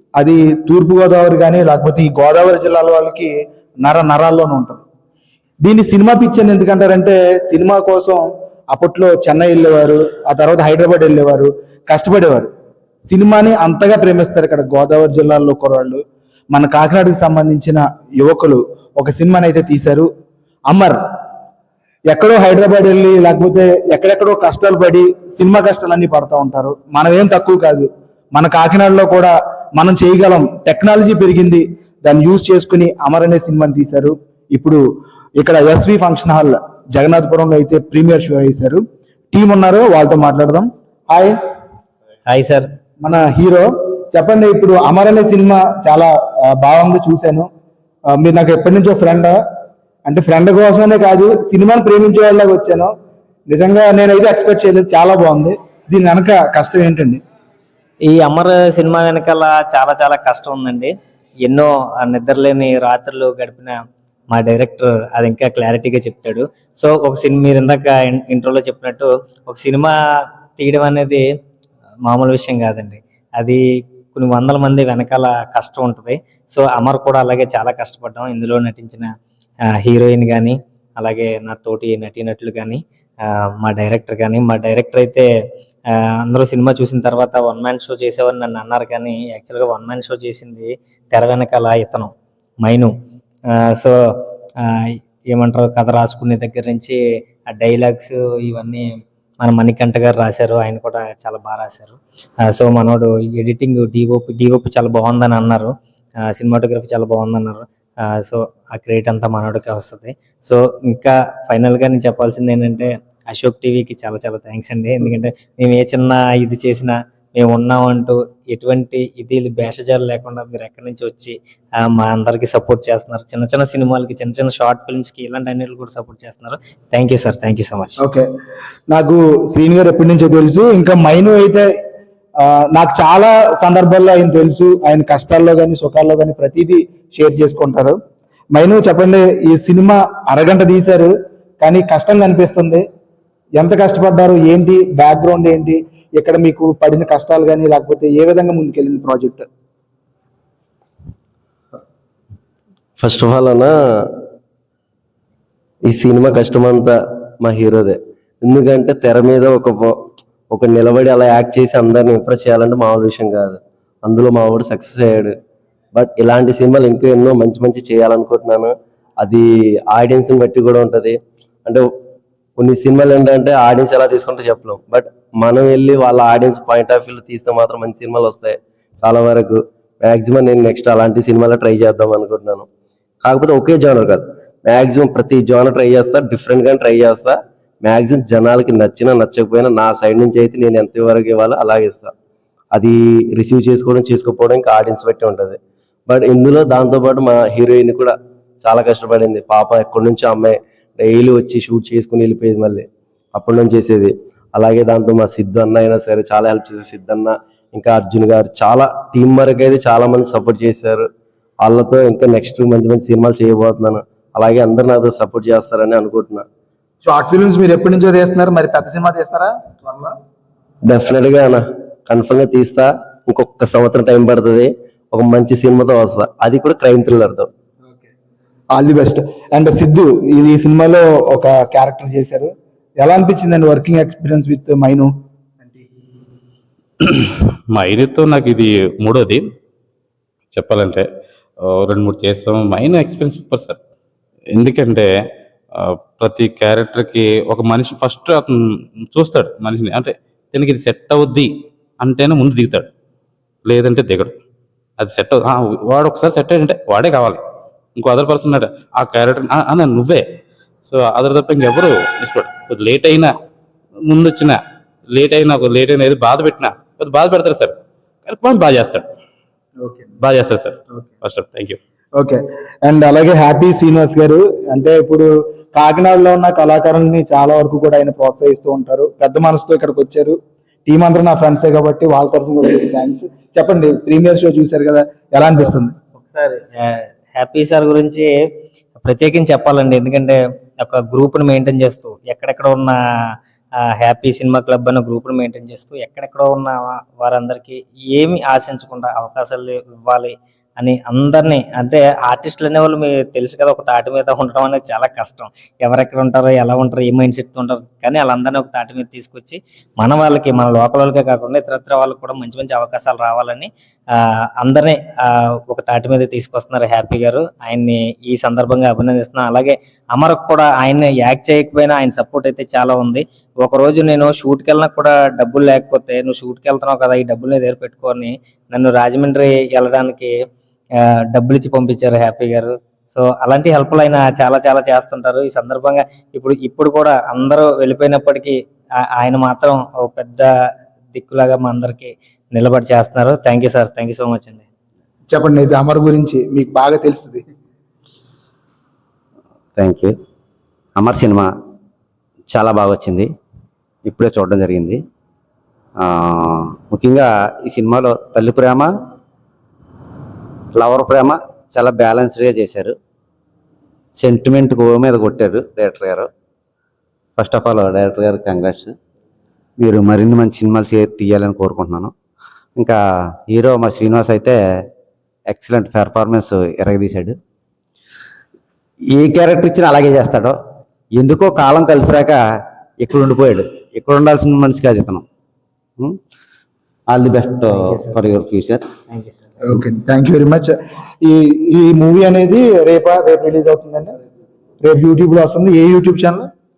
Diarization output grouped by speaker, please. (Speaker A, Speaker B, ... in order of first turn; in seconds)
Speaker A: 0.2-4.8, 5.6-12.5, 13.1-20.1, 20.7-21.0, 22.1-34.8, 35.4-41.4, 43.0-47.5, 48.1-49.4, 50.1-52.9, 53.5-57.2, 128.0-128.3, 128.9-131.7, 132.4-138.0, 138.5-142.8, 143.6-149.5, 217.0-220.1, 228.7-235.1, 269.8-270.1, 272.2-285.9, 345.3-347.4, 389.6-394.1, 394.8-396.5
Speaker B: 42.3-42.7, 58.1-60.9, 61.5-63.7, 64.3-69.9, 70.6-71.2, 72.1-73.6, 74.1-79.1, 79.8-85.3, 85.9-92.1, 92.6-92.9, 94.6-97.0, 97.5-98.8, 99.4-102.0, 102.5-105.7, 106.3-107.6, 108.2-121.3, 121.9-128.0, 286.2-288.3, 289.0-292.9, 294.0-330.3, 331.3-338.5, 339.2-340.5, 341.1-344.7, 387.8-388.1, 389.1-389.5
Speaker C: 153.0-153.7, 155.9-159.9, 160.5-165.3, 166.0-171.8, 172.6-182.7, 183.2-192.1, 192.7-211.1, 211.6-216.4, 220.9-227.5
Speaker D: 237.0-239.4, 240.5-241.1, 241.7-243.8, 244.5-245.1, 245.8-248.6, 249.1-251.5, 252.0-252.9, 253.7-254.3, 255.0-257.4, 258.0-260.2, 260.9-263.3, 264.1-264.6, 265.1-267.8, 268.3-269.1, 270.2-271.8
Speaker E: 349.8-350.1, 351.0-351.5, 352.5-353.3, 354.1-355.0, 356.0-358.9, 360.7-362.9, 364.2-366.3, 367.4-368.9, 369.8-372.1, 372.8-374.6, 375.5-377.4, 379.1-380.6, 381.2-382.4, 383.0-385.2, 387.1-388.9